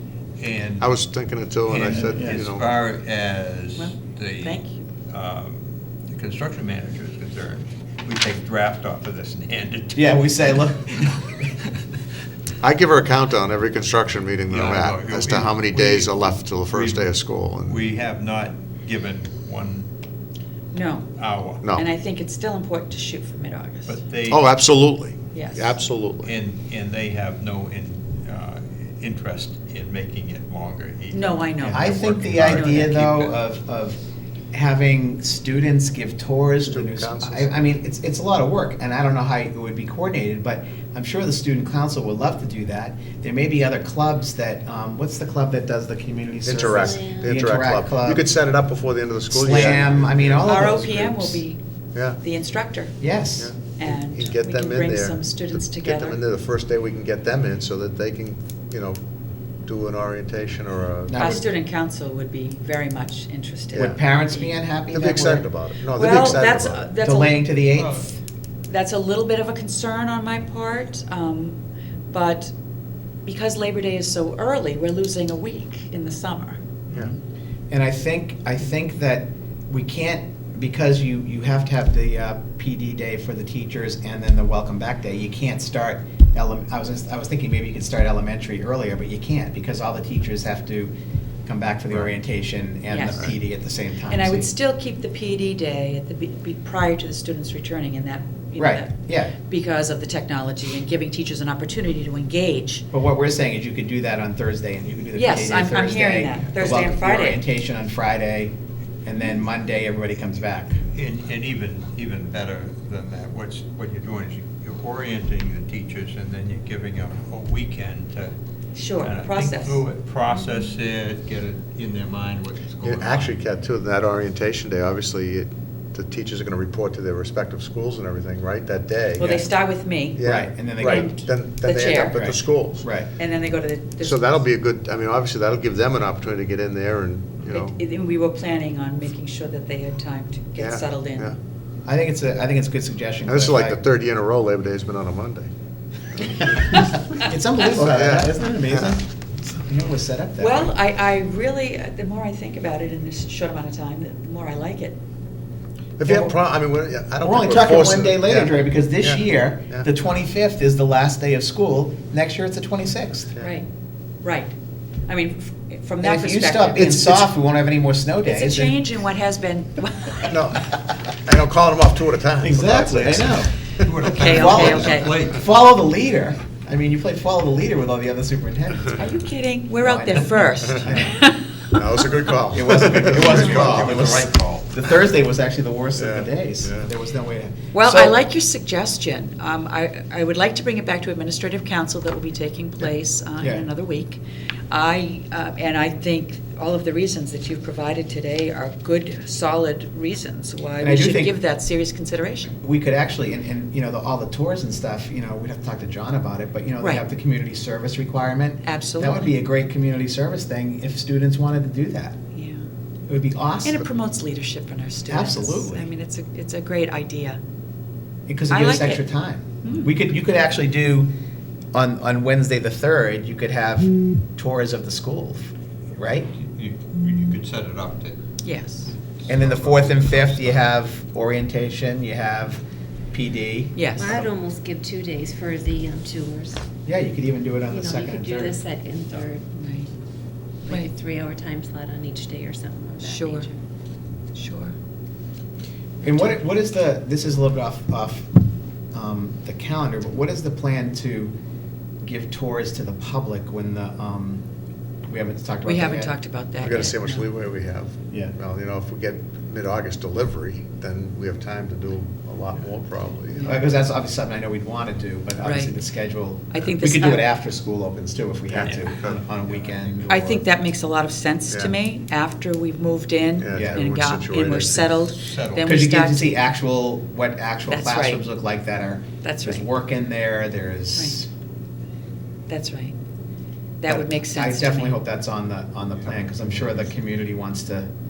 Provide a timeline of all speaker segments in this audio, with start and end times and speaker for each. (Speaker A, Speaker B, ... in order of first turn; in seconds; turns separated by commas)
Speaker A: 0.4-1.0, Speaker B: 0.8-2.7, Speaker A: 1.6-11.1, Speaker C: 1.9-2.4, Speaker D: 3.8-4.8, Speaker C: 9.9-11.3, Speaker B: 12.6-17.8, Speaker A: 14.5-19.9, Speaker D: 20.7-21.1, Speaker A: 21.2-21.6, Speaker D: 21.7-24.0, Speaker A: 23.9-24.5, Speaker B: 24.3-26.3, Speaker D: 25.3-25.8, Speaker A: 26.2-33.4, Speaker D: 31.1-33.0, Speaker C: 31.7-34.0, Speaker C: 34.5-48.2, Speaker B: 36.6-37.6, Speaker B: 46.4-50.8, Speaker E: 46.5-47.4, Speaker C: 49.3-51.4, Speaker D: 50.4-51.6, Speaker D: 52.1-53.0, Speaker C: 53.0-53.5, Speaker B: 53.4-59.0, Speaker D: 53.8-56.2, Speaker B: 59.6-61.3, Speaker C: 61.1-61.4, Speaker D: 61.1-64.5, Speaker C: 63.7-65.5, Speaker B: 64.9-66.9, Speaker D: 65.9-67.6, Speaker C: 67.0-68.1, Speaker A: 67.8-68.1, Speaker D: 68.7-71.6, Speaker D: 72.1-72.5, Speaker D: 73.2-76.6, Speaker C: 77.7-90.9, Speaker C: 91.4-94.5, Speaker D: 92.9-93.4, Speaker D: 94.1-102.8, Speaker C: 98.6-99.3, Speaker C: 102.9-110.8, Speaker D: 105.1-107.4, Speaker A: 110.9-118.3, Speaker D: 118.7-119.8, Speaker A: 119.0-123.4, Speaker B: 122.8-129.4, Speaker D: 129.2-130.2, Speaker B: 130.2-132.9, Speaker C: 130.2-131.1, Speaker D: 130.7-132.6, Speaker C: 132.1-133.1, Speaker D: 133.2-134.4, Speaker B: 134.0-137.8, Speaker D: 137.4-141.3, Speaker B: 140.6-141.3, Speaker C: 141.8-143.8, Speaker B: 143.3-145.5, Speaker B: 146.2-146.8, Speaker C: 146.5-150.7, Speaker B: 147.6-149.0, Speaker D: 150.4-155.0, Speaker B: 156.0-159.9, Speaker D: 156.1-156.3, Speaker C: 157.2-163.3, Speaker D: 163.4-163.7, Speaker D: 164.2-164.5, Speaker D: 165.1-167.3, Speaker C: 166.0-168.8, Speaker D: 168.2-170.4, Speaker B: 170.2-173.5, Speaker C: 172.4-173.5, Speaker A: 173.8-175.5, Speaker D: 174.0-175.2, Speaker C: 174.1-179.1, Speaker D: 178.9-182.3, Speaker C: 179.8-181.2, Speaker B: 181.7-184.2, Speaker C: 182.5-188.2, Speaker A: 182.9-184.8, Speaker B: 186.0-186.9, Speaker D: 187.7-202.6, Speaker C: 193.4-193.7, Speaker C: 200.8-201.4, Speaker C: 202.5-212.2, Speaker D: 206.8-207.0, Speaker D: 208.6-209.3, Speaker D: 212.3-212.6, Speaker C: 213.1-213.8, Speaker D: 213.6-217.4, Speaker C: 215.1-215.9, Speaker C: 218.3-221.1, Speaker D: 218.5-219.1, Speaker D: 219.6-219.9, Speaker C: 221.7-226.3, Speaker A: 226.3-228.2, Speaker D: 228.4-228.9, Speaker A: 229.2-230.7, Speaker C: 229.3-234.3, Speaker D: 233.7-234.1, Speaker E: 234.0-236.6, Speaker C: 236.8-238.6, Speaker E: 237.7-239.5, Speaker D: 239.5-239.9, Speaker E: 240.6-243.5, Speaker D: 243.0-243.5, Speaker D: 244.3-244.7, Speaker C: 246.0-248.3, Speaker C: 248.9-251.3, Speaker C: 252.0-254.4, Speaker C: 255.1-256.1, Speaker D: 255.6-257.3, Speaker B: 256.6-263.5, Speaker D: 263.3-263.7, Speaker C: 263.4-270.4, Speaker D: 265.4-265.8, Speaker D: 266.5-267.3, Speaker B: 268.5-269.2, Speaker A: 268.6-270.1, Speaker D: 270.1-276.3, Speaker B: 271.5-271.7, Speaker B: 273.4-275.1, Speaker C: 273.5-273.8, Speaker A: 275.1-275.8, Speaker C: 275.6-281.3, Speaker D: 277.7-278.2, Speaker D: 279.2-279.7, Speaker D: 280.9-281.2, Speaker D: 282.5-282.9, Speaker D: 283.8-285.0, Speaker C: 283.9-287.9, Speaker A: 286.4-286.7